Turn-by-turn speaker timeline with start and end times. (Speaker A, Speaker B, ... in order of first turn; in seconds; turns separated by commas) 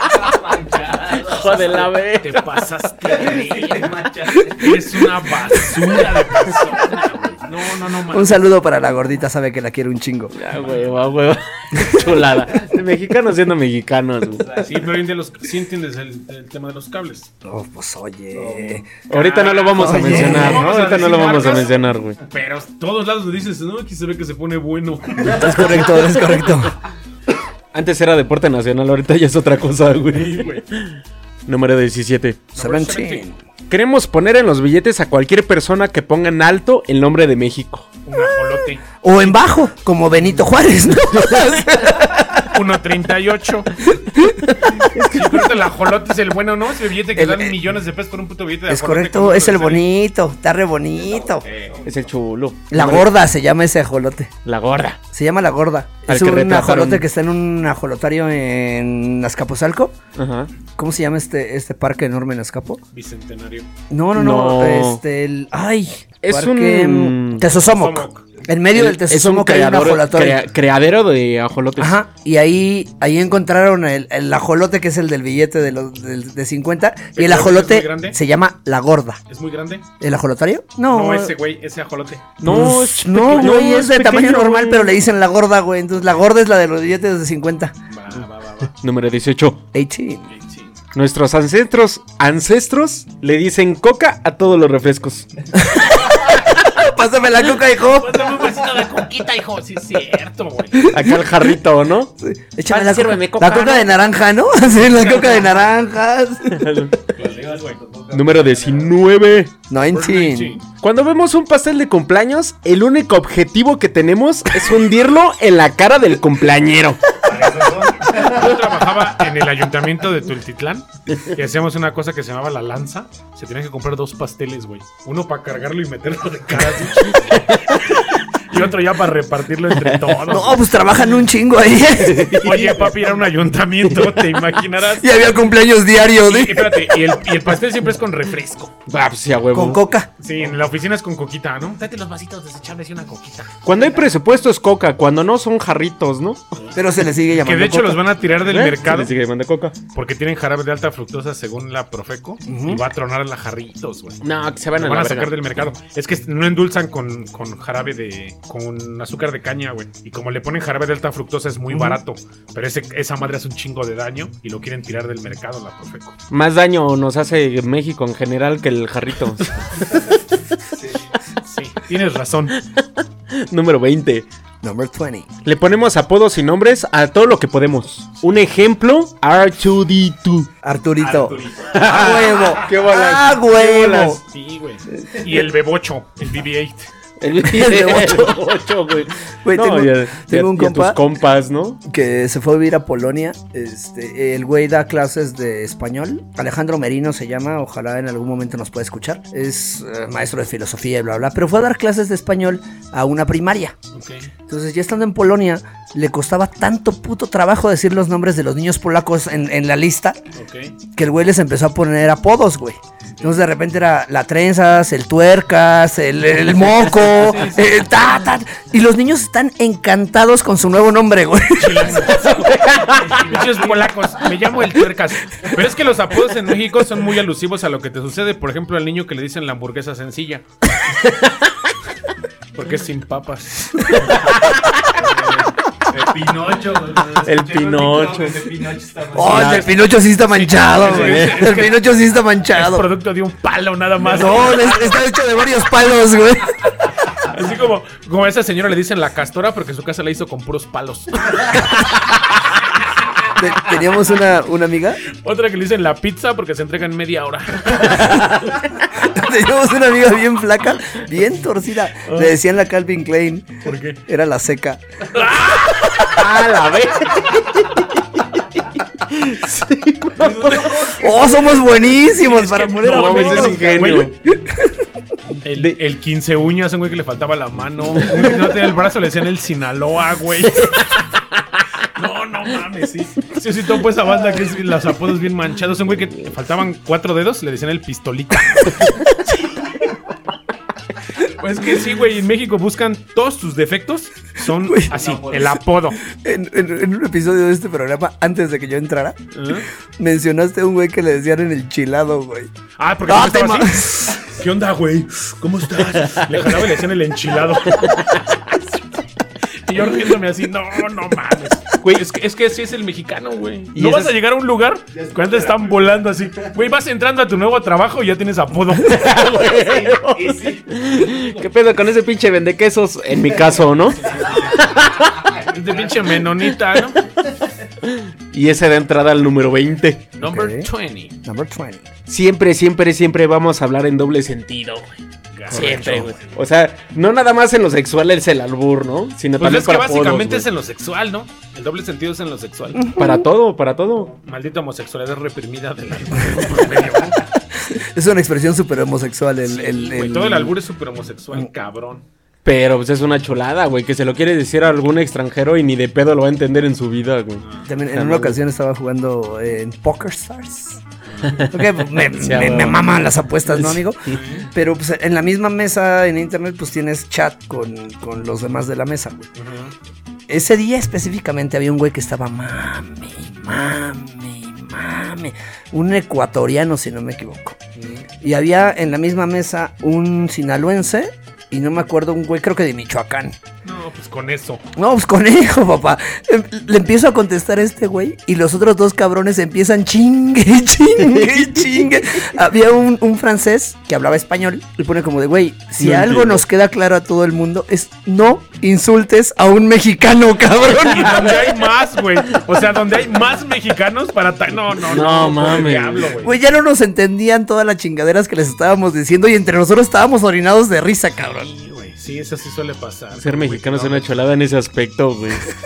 Speaker A: 0.2-1.7, Speaker B: 1.1-2.7, Speaker C: 1.6-8.4, Speaker A: 3.2-4.7, Speaker D: 8.1-10.3, Speaker B: 10.3-14.5, Speaker A: 14.4-14.8, Speaker C: 14.6-17.3, Speaker D: 17.4-18.9, Speaker A: 18.3-18.8, Speaker B: 19.1-22.2, Speaker C: 19.1-21.7, Speaker D: 19.7-20.9, Speaker C: 22.2-25.7, Speaker D: 25.2-26.7, Speaker B: 25.4-26.6, Speaker B: 27.7-32.5, Speaker C: 30.1-30.6, Speaker C: 32.5-33.2, Speaker D: 32.6-33.4, Speaker B: 33.7-37.9, Speaker C: 38.0-39.4, Speaker D: 39.0-42.5, Speaker C: 42.5-43.7, Speaker D: 43.8-44.8, Speaker B: 44.9-45.5, Speaker C: 45.1-49.9, Speaker D: 47.1-47.6, Speaker D: 48.7-51.4, Speaker A: 51.1-52.0, Speaker B: 51.8-53.1, Speaker D: 52.7-54.3, Speaker B: 54.4-55.0, Speaker D: 55.1-59.9, Speaker B: 56.1-57.0, Speaker B: 60.1-60.5, Speaker D: 60.8-62.8, Speaker C: 62.9-63.7, Speaker D: 63.9-70.4, Speaker B: 64.1-65.0, Speaker B: 66.2-67.4, Speaker C: 67.5-68.2, Speaker B: 68.7-72.0, Speaker D: 71.8-79.2, Speaker C: 77.2-78.2, Speaker C: 79.3-79.8, Speaker D: 80.0-81.3, Speaker C: 80.9-82.3, Speaker D: 82.4-87.7, Speaker B: 82.4-84.9, Speaker C: 87.9-88.7, Speaker B: 88.8-89.6, Speaker D: 89.7-90.2, Speaker C: 90.3-90.8, Speaker B: 90.9-95.3, Speaker D: 95.6-98.2, Speaker C: 97.9-100.9, Speaker D: 100.8-101.3, Speaker B: 100.9-102.1, Speaker D: 102.2-106.6, Speaker B: 102.7-103.9, Speaker C: 104.9-105.4, Speaker B: 106.5-107.0, Speaker A: 107.1-108.9, Speaker C: 107.4-107.8, Speaker B: 108.1-109.5, Speaker D: 109.7-110.6, Speaker C: 109.9-110.6, Speaker B: 110.8-117.0, Speaker A: 117.2-118.5, Speaker C: 118.1-130.6, Speaker B: 127.3-127.7, Speaker B: 129.7-130.3, Speaker D: 130.3-132.4, Speaker B: 132.0-132.9, Speaker C: 132.4-135.3, Speaker B: 133.8-134.5, Speaker D: 135.0-136.9, Speaker C: 136.2-138.8, Speaker B: 138.8-139.8, Speaker D: 139.5-140.1, Speaker C: 140.2-143.5, Speaker B: 143.6-146.4, Speaker D: 146.7-148.0, Speaker C: 147.4-149.1, Speaker B: 148.4-149.8, Speaker C: 149.9-154.2, Speaker D: 152.4-152.8, Speaker B: 154.2-155.3, Speaker C: 154.7-166.2, Speaker B: 166.3-169.5, Speaker C: 171.4-172.6, Speaker B: 172.6-174.3, Speaker D: 174.6-175.3, Speaker B: 175.4-180.5, Speaker D: 180.6-184.2, Speaker A: 180.9-182.7, Speaker B: 181.7-184.2, Speaker C: 183.8-186.9, Speaker B: 187.2-191.8, Speaker D: 187.4-188.4, Speaker D: 189.4-191.0, Speaker D: 191.8-203.7, Speaker C: 203.9-204.3, Speaker D: 204.5-210.2, Speaker C: 210.3-210.7, Speaker D: 210.9-222.1, Speaker C: 216.8-217.8, Speaker C: 221.6-230.4, Speaker B: 222.2-223.4, Speaker B: 231.0-231.5, Speaker C: 232.5-234.4, Speaker A: 234.9-239.6, Speaker B: 237.2-238.5, Speaker D: 239.1-242.8, Speaker B: 239.2-239.7, Speaker C: 240.3-241.8, Speaker B: 240.8-241.4, Speaker C: 242.5-245.0, Speaker D: 244.1-246.9, Speaker C: 247.2-252.4, Speaker D: 253.3-255.0, Speaker C: 255.1-258.4, Speaker D: 257.8-264.8, Speaker C: 262.0-262.4, Speaker C: 263.6-264.0, Speaker C: 265.1-266.2, Speaker B: 266.1-268.0, Speaker B: 269.0-270.8, Speaker A: 270.2-271.5, Speaker D: 270.9-274.8, Speaker C: 272.1-274.1, Speaker B: 272.8-274.1, Speaker C: 275.4-280.8, Speaker B: 280.6-281.0, Speaker C: 281.8-289.9, Speaker C: 291.1-296.0, Speaker D: 294.6-294.9, Speaker A: 294.9-295.5, Speaker D: 296.0-299.2, Speaker C: 299.3-299.7, Speaker D: 300.0-302.5, Speaker C: 302.8-308.0, Speaker D: 303.1-304.2, Speaker B: 306.0-306.5, Speaker B: 307.7-308.4, Speaker C: 309.6-319.1, Speaker B: 313.7-314.1, Speaker A: 314.9-316.0, Speaker B: 318.9-325.2, Speaker A: 319.1-320.7, Speaker C: 321.1-321.4, Speaker C: 324.0-324.5, Speaker A: 325.2-326.0, Speaker C: 325.4-327.0, Speaker B: 327.8-330.1, Speaker C: 330.2-331.1, Speaker D: 330.2-330.7, Speaker D: 331.2-331.9, Speaker B: 332.1-335.0, Speaker C: 335.3-336.2, Speaker B: 335.5-340.5, Speaker C: 339.4-342.9, Speaker B: 342.9-344.1, Speaker C: 344.2-347.2, Speaker D: 347.6-350.5, Speaker C: 349.4-352.0, Speaker B: 352.4-358.4, Speaker C: 357.4-357.7, Speaker D: 357.6-360.8, Speaker C: 361.1-361.4, Speaker D: 361.4-369.2, Speaker B: 361.4-364.2, Speaker C: 364.1-364.5, Speaker C: 369.4-369.7, Speaker D: 370.3-377.6, Speaker C: 377.8-378.1, Speaker D: 378.2-383.4, Speaker C: 383.6-384.6, Speaker D: 384.8-401.5, Speaker B: 391.0-391.9, Speaker B: 395.8-396.4, Speaker C: 400.8-406.4, Speaker B: 404.8-406.1, Speaker D: 406.2-411.5, Speaker C: 411.2-414.1, Speaker B: 413.1-415.4